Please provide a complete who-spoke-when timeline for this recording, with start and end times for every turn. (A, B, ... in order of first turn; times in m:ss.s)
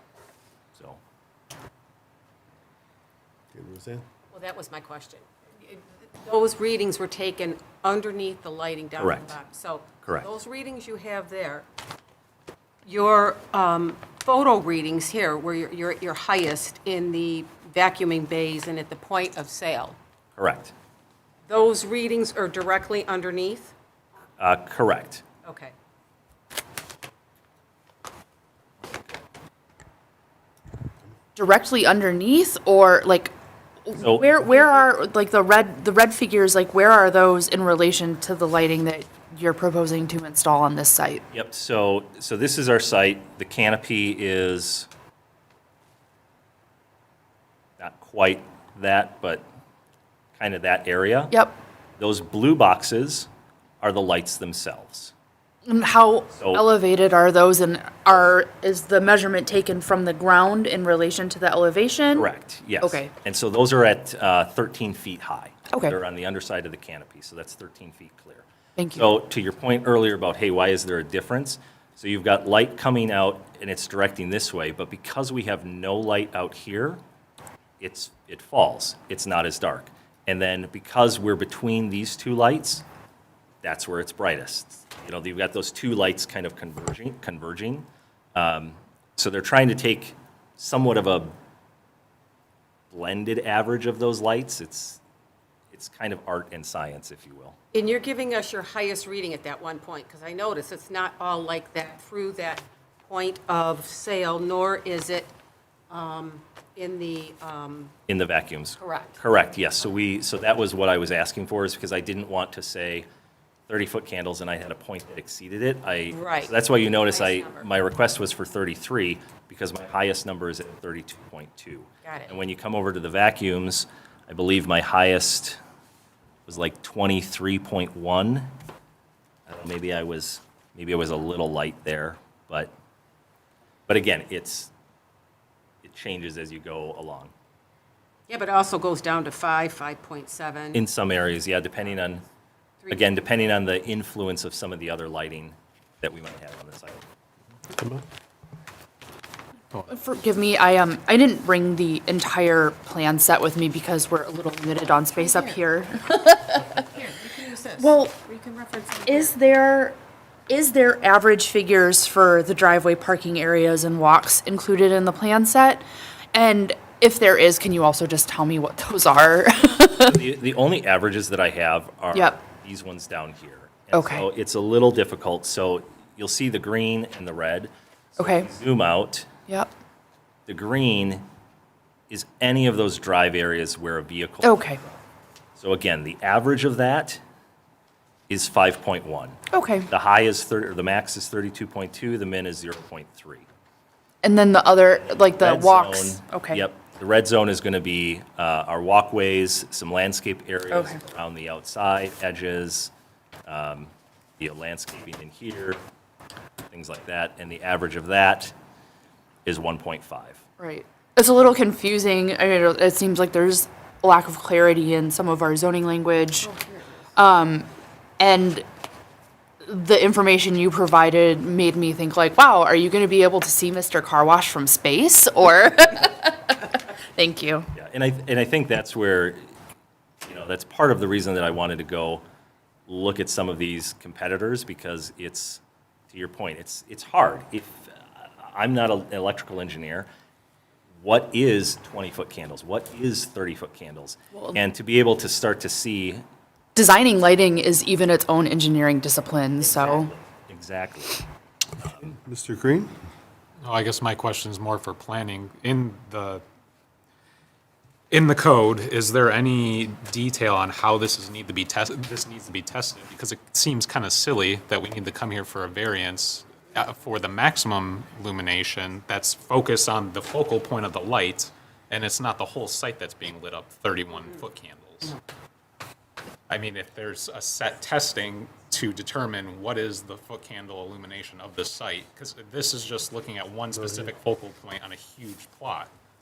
0:00.7-0:01.0 A
0:03.5-0:04.0 B
0:04.3-0:11.6 C
0:09.0-0:09.4 A
0:12.8-0:20.0 C
0:20.3-0:20.7 A
0:21.5-0:23.7 C
0:24.4-0:25.2 A
0:25.4-0:25.7 C
0:31.4-0:33.3 D
0:33.8-0:41.2 D
0:34.0-0:34.2 A
0:41.3-0:44.9 A
0:47.8-0:49.4 A
0:50.4-0:51.3 A
0:52.0-0:53.3 A
0:53.8-0:55.1 A
0:55.6-1:02.3 D
0:56.4-0:56.6 A
1:02.1-1:17.0 A
1:02.8-1:03.1 D
1:08.8-1:09.1 D
1:17.8-1:22.8 A
1:23.6-1:31.3 A
1:32.9-1:35.0 A
1:35.7-1:37.6 A
1:37.7-1:45.3 C
1:45.9-1:47.9 C
1:48.1-1:53.0 A
1:48.8-1:49.2 C
1:53.7-2:05.6 A
1:56.1-1:57.7 C
2:02.0-2:02.3 C
2:06.5-2:08.5 A
2:09.5-2:12.7 A
2:13.9-2:14.7 A
2:15.8-2:17.3 A
2:18.3-2:20.8 C
2:20.7-2:22.2 A
2:22.9-2:27.0 A
2:27.8-2:28.0 B
2:29.9-2:36.8 D
2:35.2-2:35.6 C
2:36.7-2:39.3 C
2:37.8-2:38.1 D
2:39.0-2:40.0 D
2:40.5-2:50.2 D
2:49.9-2:59.3 A
2:53.9-2:54.2 D
2:58.2-2:58.5 D
3:00.5-3:01.2 A
3:02.1-3:05.0 A
3:04.4-3:04.8 D
3:05.6-3:07.2 A
3:08.3-3:09.4 A
3:09.5-3:09.9 D
3:09.9-3:13.4 A
3:14.2-3:16.6 D
3:15.3-3:22.9 A
3:20.7-3:21.0 D
3:23.4-3:25.8 A
3:26.7-3:28.5 A
3:29.4-3:30.4 A
3:30.6-3:36.5 D
3:36.4-3:37.1 C
3:37.1-3:37.7 D
3:38.2-3:38.6 D
3:39.6-3:47.7 D
3:47.7-3:49.4 A
3:50.2-3:52.2 A
3:52.9-4:00.1 A
4:01.0-4:06.2 A
4:04.3-4:04.6 D
4:06.7-4:10.1 D
4:09.6-4:11.2 A
4:11.8-4:12.1 A
4:12.1-4:12.9 B
4:13.6-4:16.4 E
4:18.1-4:35.2 E
4:36.5-4:45.9 E
4:43.8-4:44.1 B